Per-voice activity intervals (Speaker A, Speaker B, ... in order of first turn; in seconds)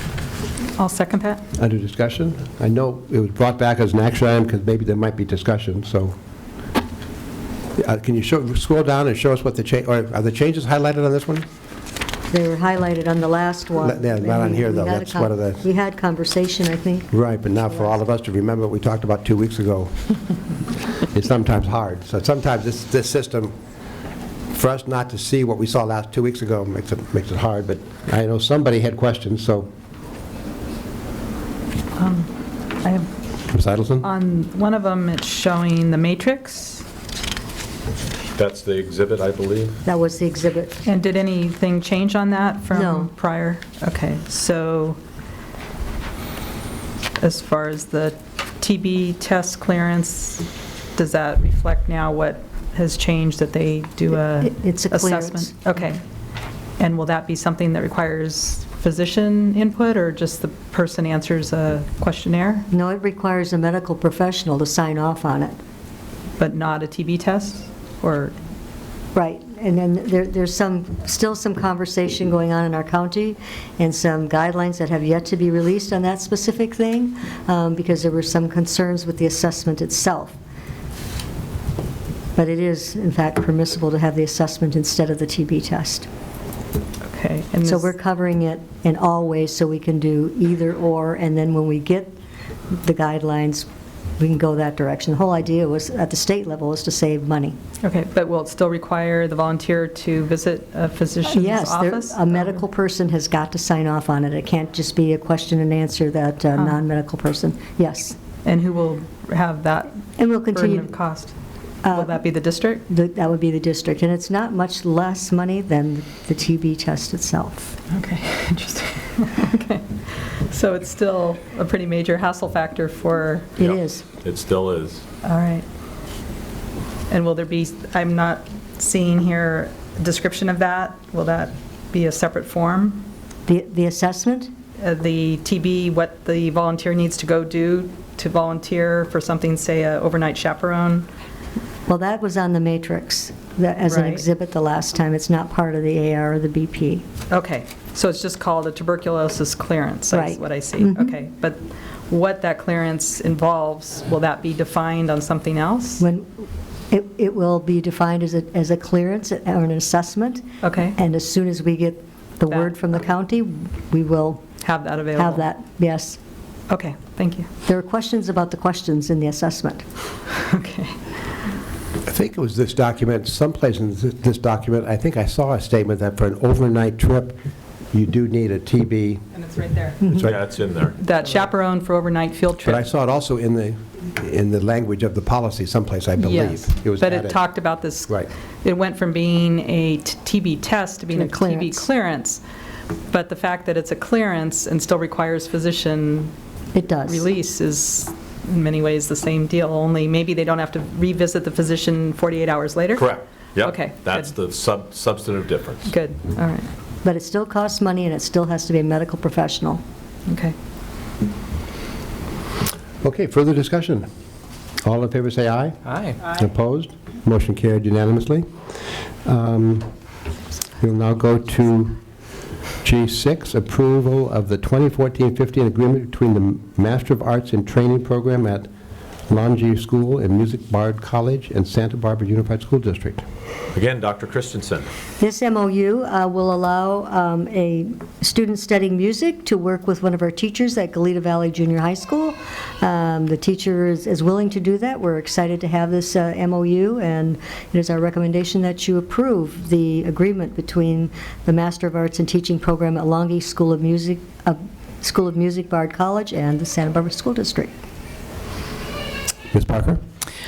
Speaker A: 0.8-1.4, 32.0-33.1, 34.0-36.8, 40.8-45.0, 47.2-56.0, 56.8-62.7, 66.4-68.3, 87.1-87.9, 97.8-102.6, 108.5-111.3, 111.8-112.8, 117.9-123.6, 125.2-125.6, 127.1-133.1, 134.8-141.1, 143.8-144.2, 147.3-156.1, 160.6-161.0, 162.5-162.7, 164.6-165.5, 166.7-167.5, 170.4-171.0, 179.4-180.0, 181.0-182.9, 186.2-192.4, 193.1-196.3, 197.0-203.1, 203.6-204.3, 205.9-206.7, 210.3-210.5
Speaker B: 1.6-6.2, 7.8-11.4, 13.8-15.6, 17.1-19.9, 21.1-23.5, 24.5-29.7, 33.5-34.1, 172.1-177.3, 177.9-179.2, 182.6-187.4, 213.0-214.1, 214.8-218.5, 219.2-219.9, 220.8-222.0, 222.8-228.7, 229.3-233.2, 259.5-260.0
Speaker C: 12.3-17.1, 39.8-40.8, 42.7-43.1, 54.4-55.5, 62.7-65.6, 69.1-80.4, 82.4-86.1, 87.6-92.1, 92.8-93.6, 94.2-97.6, 101.2-108.2, 110.2-110.9, 111.8-112.2, 112.9-117.7, 123.6-124.0, 133.5-134.5, 141.9-147.0, 150.1-151.1, 156.0-160.4, 161.0-164.5, 165.2-166.2, 167.7-169.8, 191.1-191.9, 196.7-197.3, 207.0-209.8, 235.2-257.7
Speaker D: 38.4-39.8, 123.6-125.0, 180.1-181.0, 203.0-205.9, 233.7-234.9